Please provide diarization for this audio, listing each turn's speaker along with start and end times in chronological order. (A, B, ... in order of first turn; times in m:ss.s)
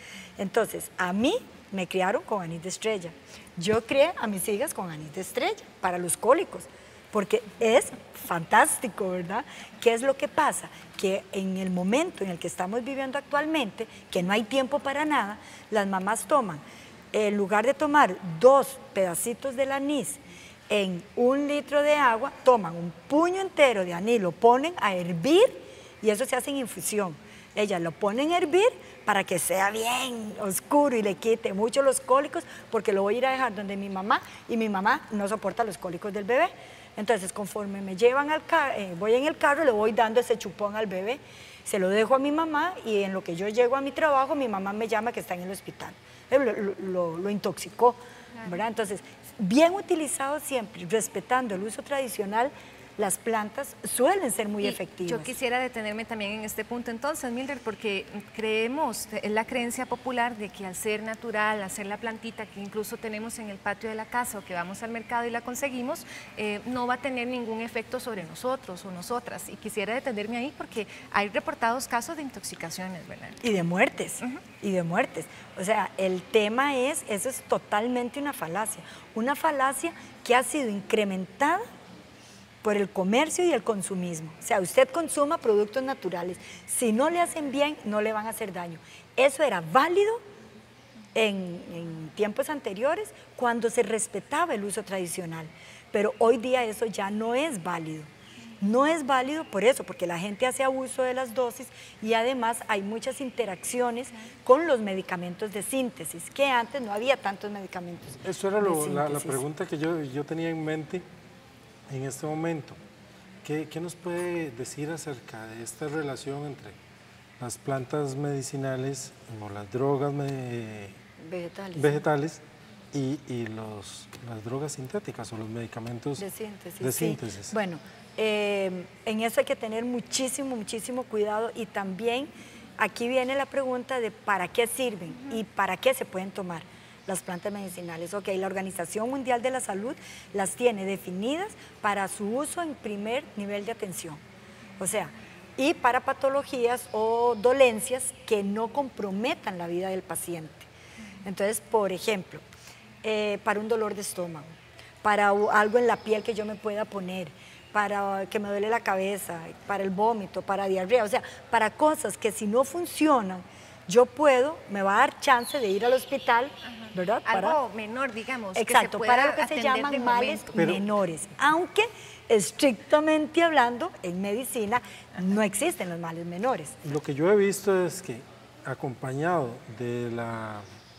0:00.4-0:55.3 A
0:54.6-1:13.4 B
1:13.4-1:21.6 A
1:22.6-1:30.2 A
1:31.2-1:38.1 A
1:38.6-1:49.4 A
1:48.2-1:51.0 C
1:51.9-1:52.8 C
1:53.4-1:56.8 C
1:57.4-2:01.0 C
2:01.2-2:02.0 A
2:01.8-2:06.2 C
2:06.2-2:24.2 A
2:06.8-2:07.5 C
2:24.8-2:30.7 A
2:31.2-2:32.4 A
2:33.0-2:47.6 A
2:46.7-2:50.6 B
2:48.6-2:56.8 A
2:50.6-2:50.8 C
2:56.8-3:00.6 C